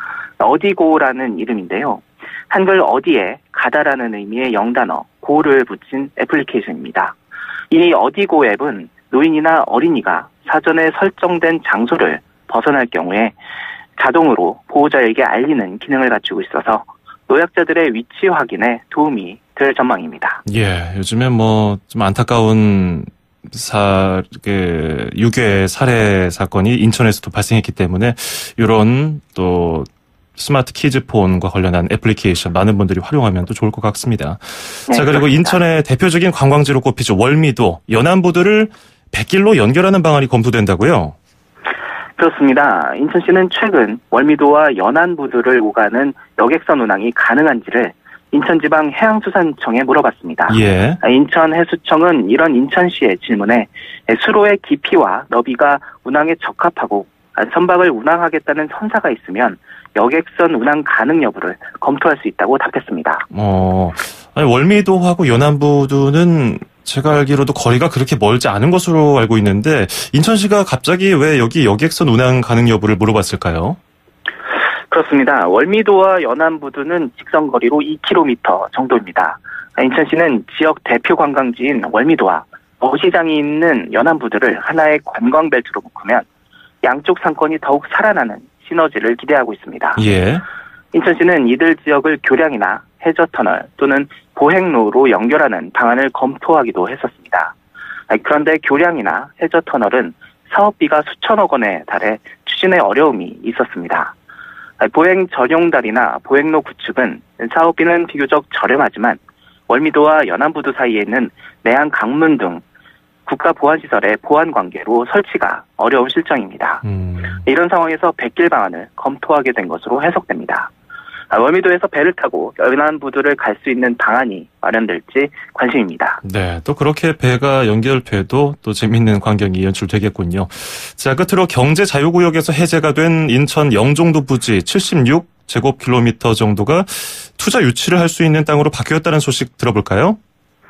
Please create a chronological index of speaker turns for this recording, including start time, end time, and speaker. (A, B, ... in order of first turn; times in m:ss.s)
0:00.4-0:07.2 A
0:07.7-0:13.4 A
0:14.0-0:20.4 A
0:20.4-0:41.2 B
0:34.9-0:35.6 A
0:42.2-1:03.3 A
0:50.5-0:51.0 B
1:03.3-1:13.8 B
1:14.9-1:26.3 A
1:26.8-1:30.0 A
1:30.0-1:30.4 B
1:30.9-1:37.5 A
1:38.1-1:44.1 A
1:44.8-1:52.6 A
1:53.3-1:56.8 A
1:56.8-1:57.4 B
1:57.4-2:00.7 A
2:01.3-2:06.2 A
2:06.2-2:20.2 B